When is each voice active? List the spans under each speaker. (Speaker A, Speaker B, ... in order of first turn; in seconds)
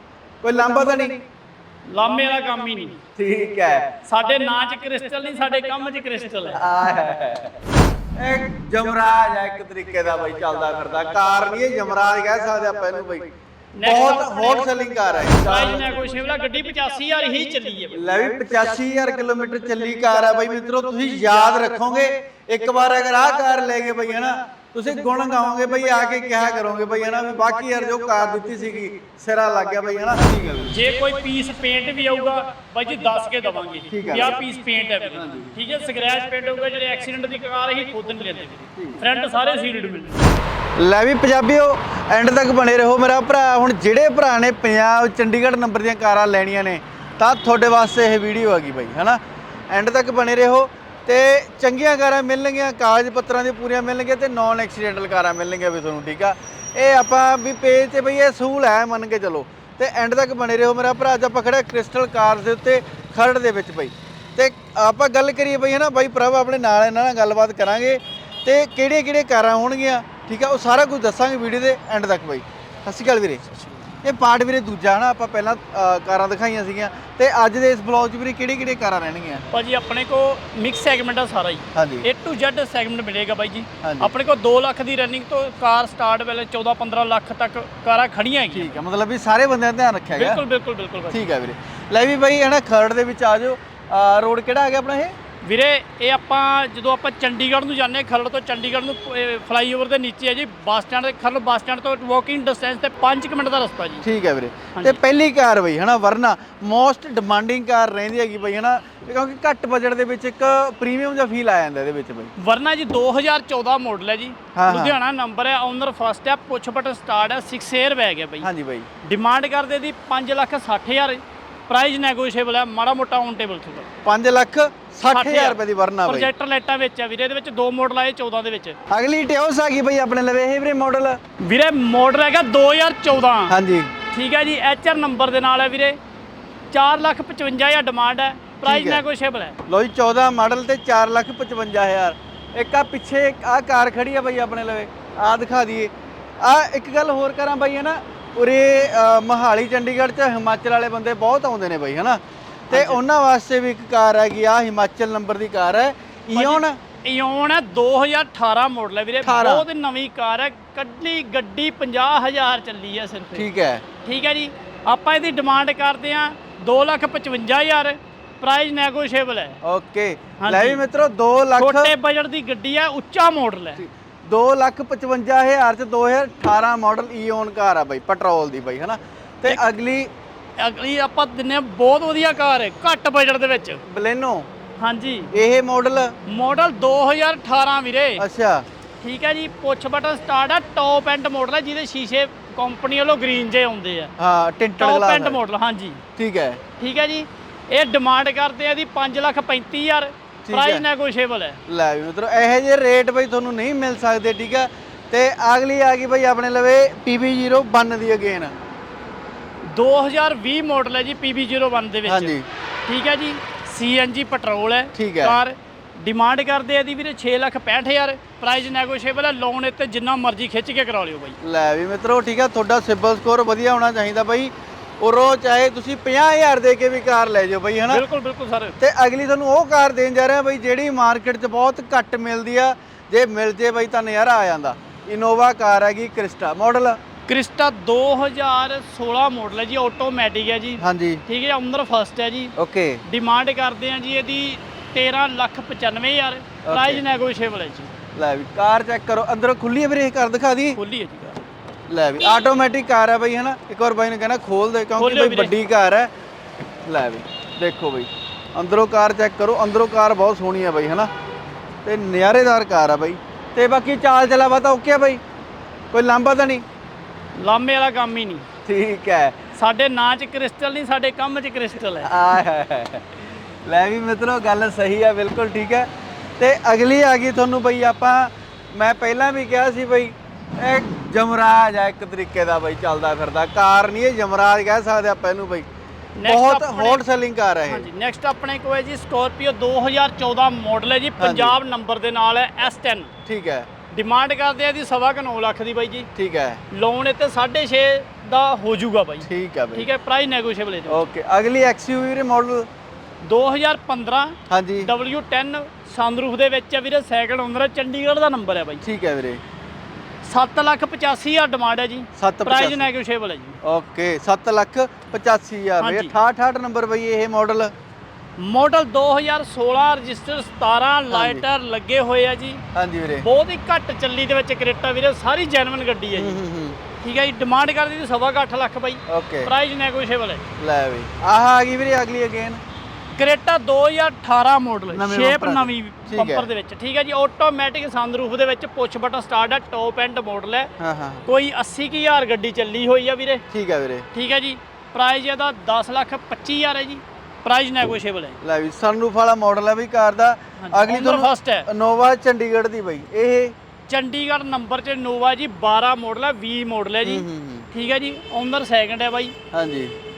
Speaker A: 0.4-1.2, 3.1-3.9, 6.5-7.5, 8.2-16.0, 17.9-30.8, 33.9-34.3, 35.1-35.5, 40.8-73.4, 74.0-79.5, 81.7-82.1, 83.8-84.1, 88.5-90.4, 91.1-95.1, 104.0-112.3, 114.5-115.0, 118.4-118.9, 124.0-126.3, 128.9-131.2, 133.5-133.9, 138.6-139.0, 139.7-156.8, 159.2-159.7, 163.3-163.8, 169.6-171.9, 173.8-180.1, 183.8-184.5, 185.3-186.1, 188.2-188.7, 194.2-195.4, 196.2-196.6, 200.4-200.8, 201.7-208.6, 212.0-212.4, 214.9-215.4, 221.4-228.0, 228.8-237.0, 240.8-241.2, 242.6-243.0, 246.6-247.0, 248.1-250.8, 251.9-256.1, 256.9-261.1, 261.8-265.2, 265.9-266.6, 268.6-269.4, 272.0-285.7, 286.2-287.9, 291.2-291.6, 293.2-293.7, 296.1-296.6, 299.2-299.9, 300.9-302.7, 304.5-304.9, 308.8-309.4, 312.2-312.9, 313.6-317.7, 321.1-321.4, 322.7-323.3, 326.1-326.8, 329.1-329.5, 330.6-332.6, 334.9-336.5, 340.8-341.2, 343.5-344.1, 348.4-353.5, 357.0-357.7, 359.5-359.9
Speaker B: 1.9-3.0, 4.0-6.6, 13.8-14.6, 15.4-18.0, 30.7-40.2, 79.5-88.8, 90.1-91.2, 95.4-104.0, 104.7-105.0, 112.4-118.5, 119.0-123.9, 125.1-128.8, 131.4-133.5, 134.1-136.0, 136.7-139.6, 152.7-153.0, 156.3-163.5, 164.0-169.6, 170.4-170.8, 171.6-173.8, 180.6-183.8, 184.8-185.3, 186.3-188.2, 189.0-194.1, 194.8-196.0, 196.8-201.6, 209.6-212.3, 212.8-221.4, 227.9-228.8, 237.3-247.9, 250.7-251.4, 255.0-255.5, 267.4-268.4, 269.5-272.2, 286.2-287.0, 287.7-293.1, 293.9-296.1, 296.7-301.0, 303.2-308.8, 310.2-313.6, 315.8-316.1, 318.4-322.6, 323.2-326.4, 327.0-330.4, 333.1-340.7, 341.3-343.4, 344.1-348.4, 350.6-351.7, 353.9-359.3